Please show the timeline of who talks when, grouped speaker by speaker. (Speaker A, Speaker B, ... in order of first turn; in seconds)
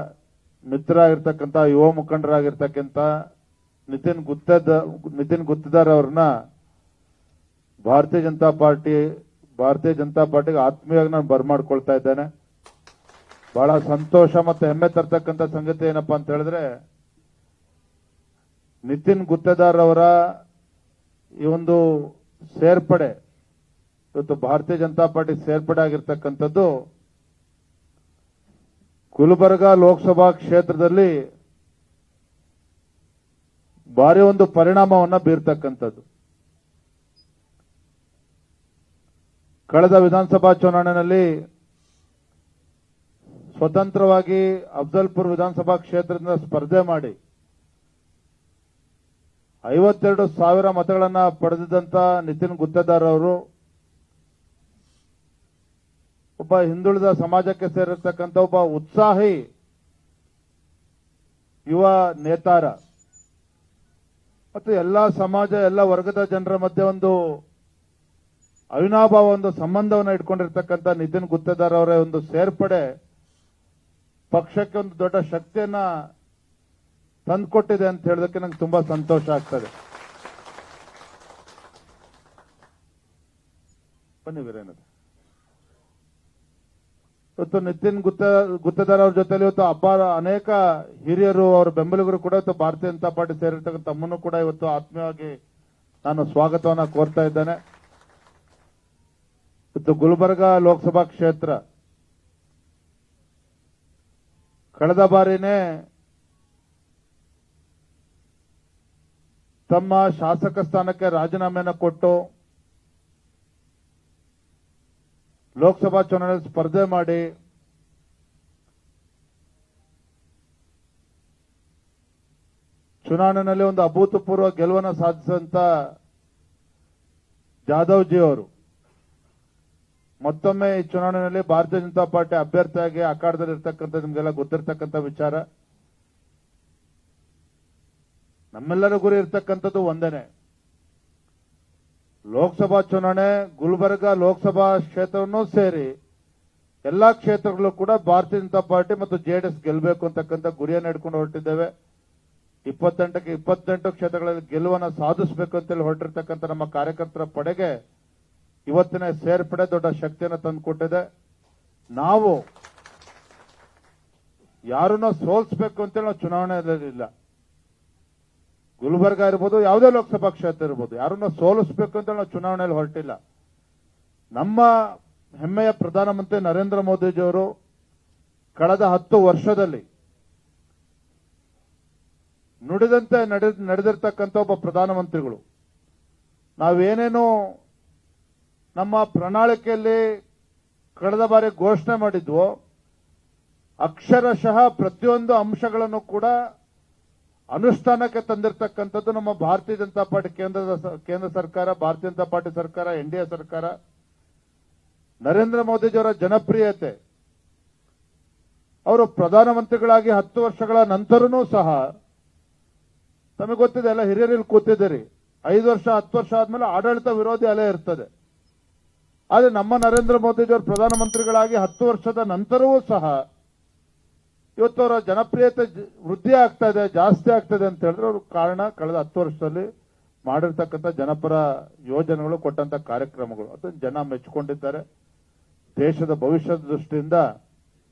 Speaker A: 0.7-3.0, 3.9-6.2, 7.9-9.0, 9.6-12.3, 13.5-16.6, 18.9-20.1, 21.4-21.8, 22.5-23.1, 24.1-26.7, 29.1-31.1, 34.0-36.0, 39.7-41.3, 43.6-47.1, 49.7-53.4, 56.4-59.4, 61.7-62.7, 64.5-67.1, 68.8-72.8, 74.3-75.8, 77.3-79.7, 84.2-84.8, 87.4-95.3, 96.0-97.6, 99.8-101.5, 104.8-105.6, 109.7-112.2, 115.6-117.2, 123.0-125.7, 127.7-128.5, 130.2-135.4, 138.5-140.3, 142.3-145.9, 146.9-151.7, 152.7-157.7, 158.7-161.0, 162.0-162.4, 164.7-167.1, 168.8-173.2, 174.4-174.7, 175.4-177.5, 178.6-179.8, 182.7-185.4, 186.6-187.3, 188.8-190.0, 191.0-192.5, 193.8-196.3, 197.5-203.7, 205.2-206.9, 208.9-211.8, 213.4-218.1, 219.3-223.2, 224.6-229.7, 230.3-234.8, 235.8-237.2